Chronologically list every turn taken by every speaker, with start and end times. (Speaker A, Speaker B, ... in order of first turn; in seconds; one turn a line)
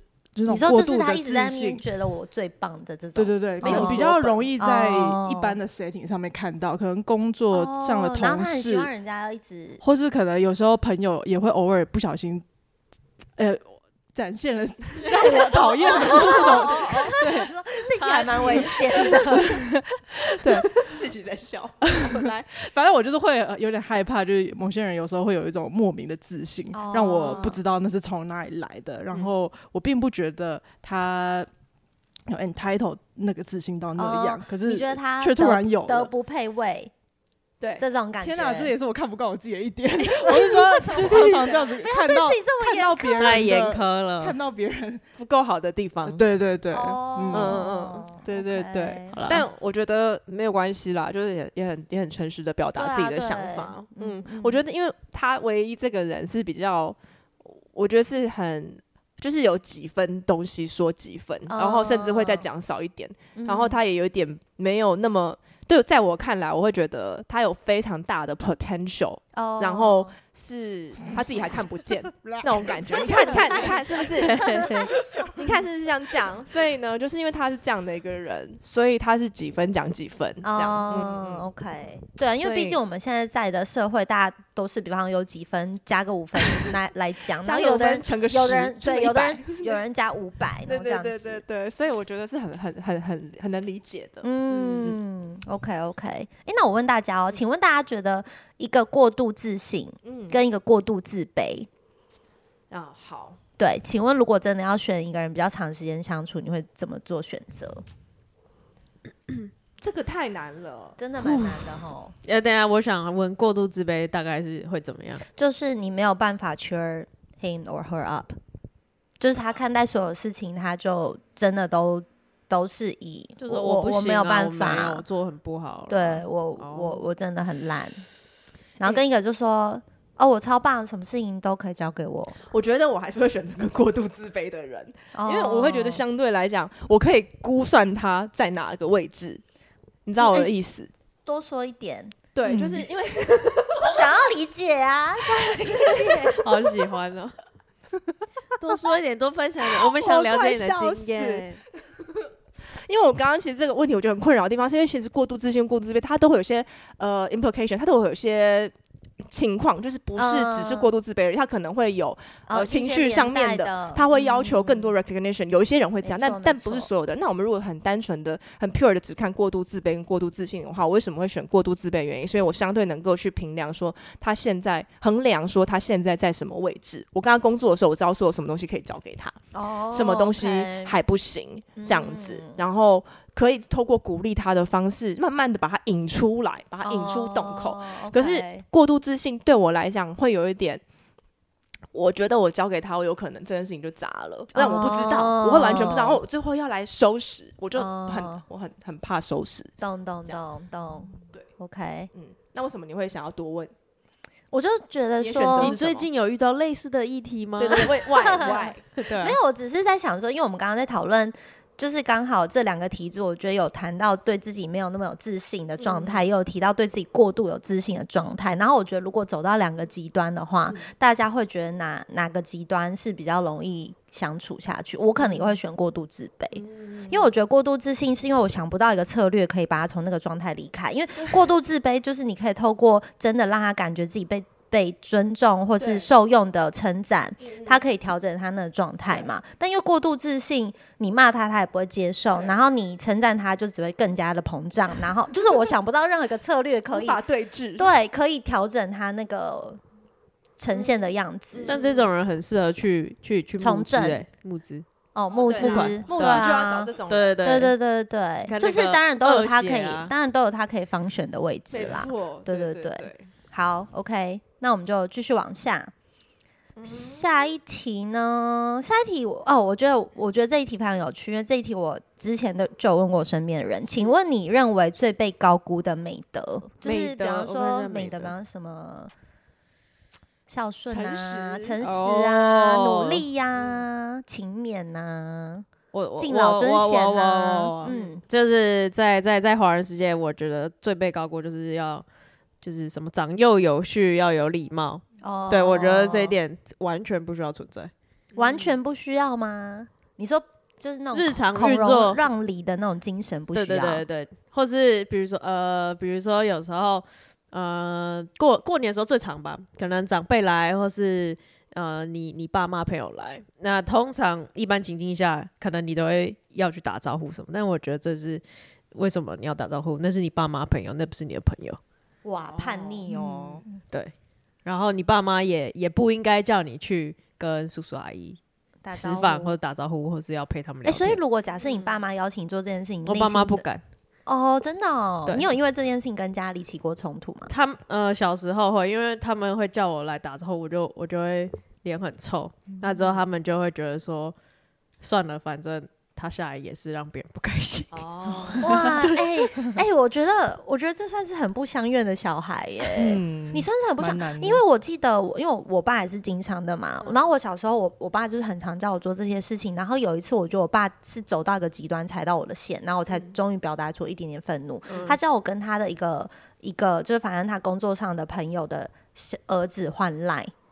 Speaker A: 0.3-1.8
Speaker B: 0.5-5.6
Speaker A: 3.1-8.9
Speaker C: 3.6-4.4
Speaker B: 7.5-9.8
Speaker A: 9.8-12.4
Speaker A: 13.4-17.5
Speaker C: 15.1-17.1
Speaker B: 15.2-19.5
Speaker C: 17.9-19.2
Speaker A: 18.4-20.9
Speaker C: 20.4-22.6
Speaker A: 21.8-31.5
Speaker B: 26.7-27.6
Speaker A: 32.3-36.1
Speaker B: 34.0-36.9
Speaker B: 37.8-38.7
Speaker A: 38.2-45.0
Speaker B: 40.1-43.5
Speaker C: 40.9-41.7
Speaker D: 43.2-44.4
Speaker C: 45.2-46.2
Speaker A: 46.0-47.6
Speaker B: 46.7-49.3
Speaker C: 47.3-81.5
Speaker D: 49.1-49.5
Speaker B: 52.8-54.6
Speaker B: 61.5-62.5
Speaker B: 63.4-63.8
Speaker B: 69.3-70.1
Speaker A: 72.6-73.4
Speaker B: 73.3-73.7
Speaker D: 74.2-74.9
Speaker B: 80.4-91.4
Speaker C: 82.4-82.8
Speaker C: 87.4-89.8
Speaker C: 90.7-95.0
Speaker B: 94.2-101.7
Speaker C: 100.0-100.4
Speaker C: 102.7-103.4
Speaker B: 103.6-107.8
Speaker C: 109.8-111.0
Speaker B: 111.0-112.1
Speaker A: 111.2-111.6
Speaker D: 112.2-115.2
Speaker B: 115.3-118.4
Speaker B: 119.2-125.0
Speaker D: 123.4-127.0
Speaker B: 125.9-128.0
Speaker B: 128.8-132.4
Speaker C: 132.5-139.4
Speaker B: 135.1-136.0
Speaker C: 140.1-140.9
Speaker B: 140.2-140.5
Speaker B: 141.2-142.1
Speaker C: 142.3-144.2
Speaker A: 142.4-142.9
Speaker B: 143.8-146.4
Speaker C: 145.6-146.4
Speaker D: 146.3-147.3
Speaker D: 148.6-151.6
Speaker C: 149.6-151.4
Speaker C: 152.8-158.7
Speaker C: 159.3-190.8
Speaker B: 160.2-160.9
Speaker B: 162.5-164.9
Speaker B: 166.0-166.9
Speaker B: 179.5-181.0
Speaker B: 181.8-182.6
Speaker B: 186.8-188.6
Speaker C: 191.9-199.7
Speaker B: 194.5-196.2
Speaker B: 197.7-198.4
Speaker B: 199.8-202.1
Speaker C: 202.1-203.7
Speaker B: 204.5-205.8
Speaker C: 205.2-206.1
Speaker D: 205.6-209.4
Speaker C: 207.6-208.8
Speaker B: 207.7-247.2
Speaker C: 215.8-216.2
Speaker C: 225.2-225.5
Speaker C: 226.6-227.1
Speaker C: 235.8-236.1
Speaker C: 237.5-237.8
Speaker C: 246.9-247.9
Speaker B: 247.8-249.8
Speaker B: 250.6-251.8
Speaker C: 251.5-252.1
Speaker D: 251.7-254.8
Speaker B: 253.6-254.2
Speaker B: 255.1-256.9
Speaker C: 255.3-257.4
Speaker D: 255.5-256.6
Speaker D: 257.1-257.7
Speaker B: 257.4-265.9
Speaker D: 258.4-260.1
Speaker C: 261.7-263.3
Speaker C: 266.8-267.5
Speaker B: 266.8-279.1
Speaker D: 276.8-278.3
Speaker B: 280.5-285.6
Speaker C: 280.9-281.8
Speaker D: 281.8-283.2
Speaker D: 285.9-292.0
Speaker B: 286.2-288.2
Speaker C: 287.8-288.1
Speaker D: 292.6-297.9
Speaker B: 295.2-296.3
Speaker C: 298.3-298.7
Speaker B: 298.4-304.0
Speaker D: 301.1-302.2
Speaker D: 303.5-318.4
Speaker D: 318.9-321.8
Speaker B: 322.2-323.6
Speaker C: 322.5-323.0
Speaker A: 323.1-323.6
Speaker D: 324.6-328.4
Speaker B: 328.8-329.6
Speaker D: 328.9-331.2
Speaker B: 330.8-333.6
Speaker D: 333.1-333.8
Speaker B: 334.2-337.5
Speaker D: 337.5-344.3
Speaker D: 345.0-349.2
Speaker C: 347.9-349.0
Speaker B: 348.6-370.5
Speaker A: 352.9-354.6
Speaker D: 364.9-365.1